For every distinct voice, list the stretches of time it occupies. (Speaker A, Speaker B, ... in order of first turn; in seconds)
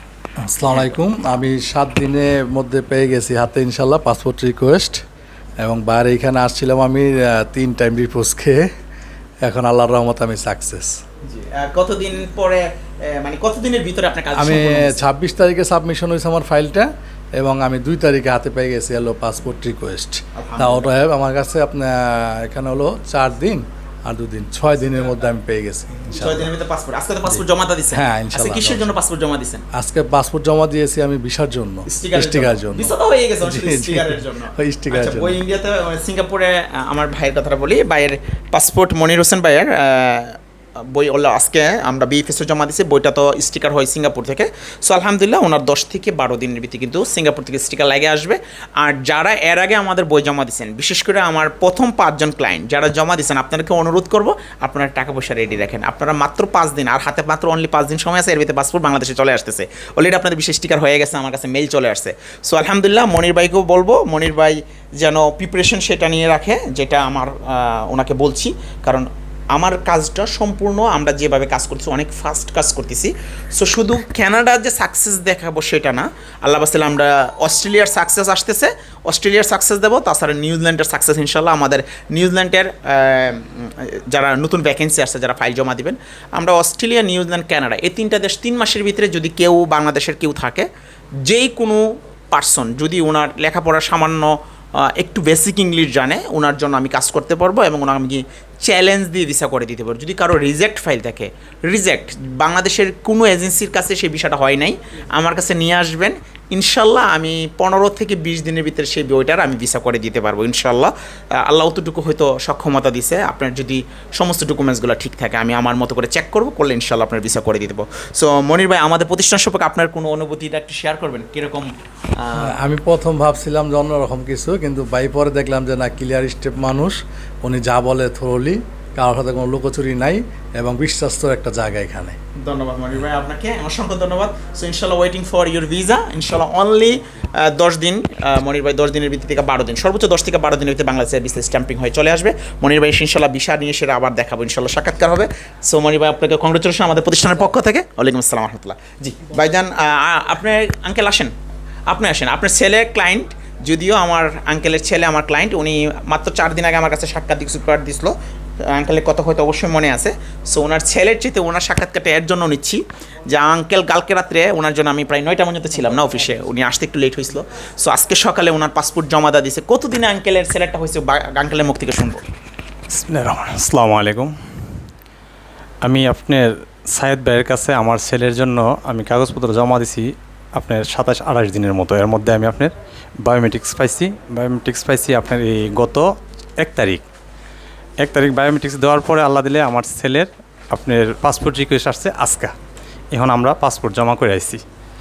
Speaker A: 0.4-5.0, 5.6-8.7, 9.4-11.0, 14.4-26.5, 27.3-28.9, 29.7-35.4, 122.4-132.2
Speaker B: 0.7-1.0, 11.3-15.1, 20.4-20.9, 26.1-29.6, 31.9-40.4, 40.9-90.7, 91.3-110.9, 111.4-122.5, 132.4-151.3, 151.9-158.1, 158.7-172.2
Speaker C: 172.9-174.3, 175.8-187.0, 188.0-192.5, 193.1-194.6